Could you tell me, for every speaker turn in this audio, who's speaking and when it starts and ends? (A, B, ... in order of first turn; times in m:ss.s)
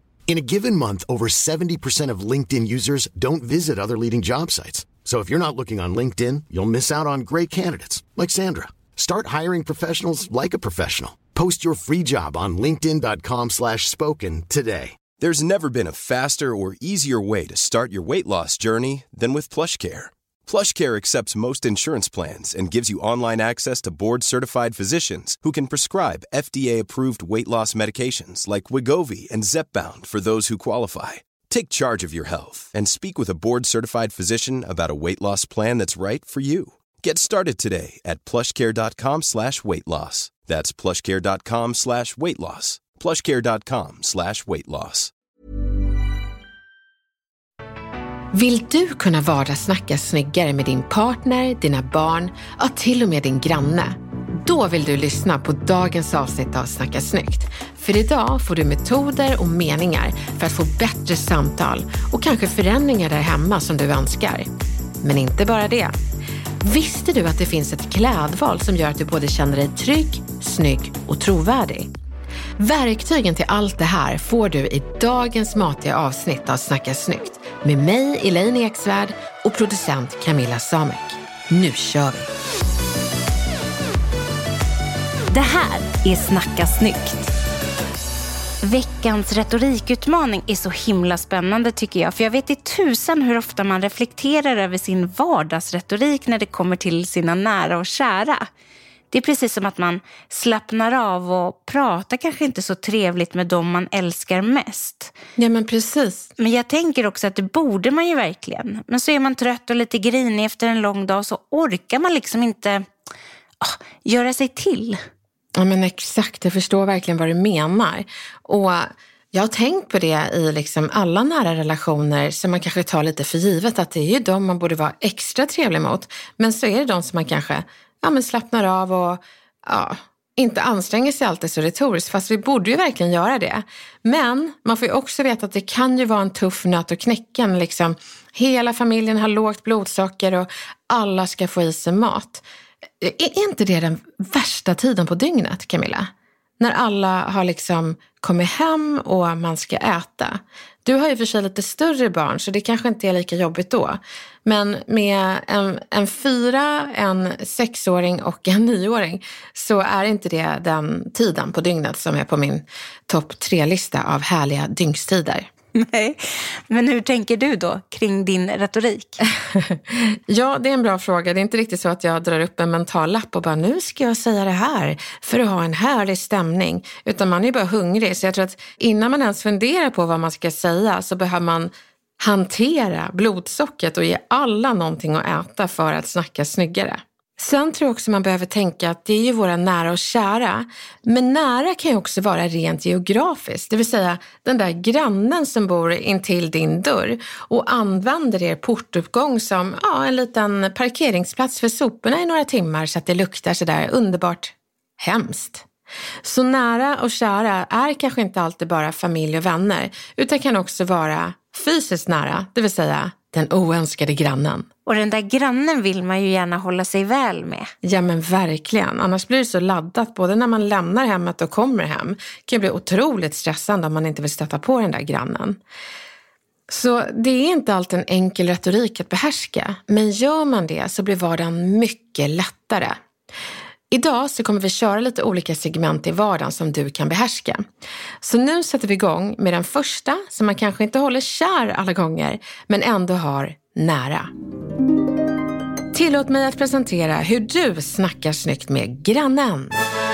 0:00.3-0:15.0 A
0:15.2-0:45.1 B
0:48.3-1:04.5 C
1:05.0-1:06.0 C
1:06.6-1:11.9 C
1:12.6-1:22.3 C
1:25.3-1:27.3 D
1:28.6-1:38.5 D
1:39.1-1:45.1 D
1:45.4-1:46.3 C
1:46.4-1:52.8 D
1:53.6-1:55.0 D
1:55.6-2:22.4 C
2:23.0-2:45.5 C
2:45.8-2:49.3 D
2:49.5-3:25.6 C
3:26.2-3:34.7 C
3:34.8-3:37.7 D
3:37.8-3:45.6 C
3:46.7-3:53.0 C
3:53.9-3:57.6 C
3:58.2-4:04.3 C
4:05.9-4:09.7 C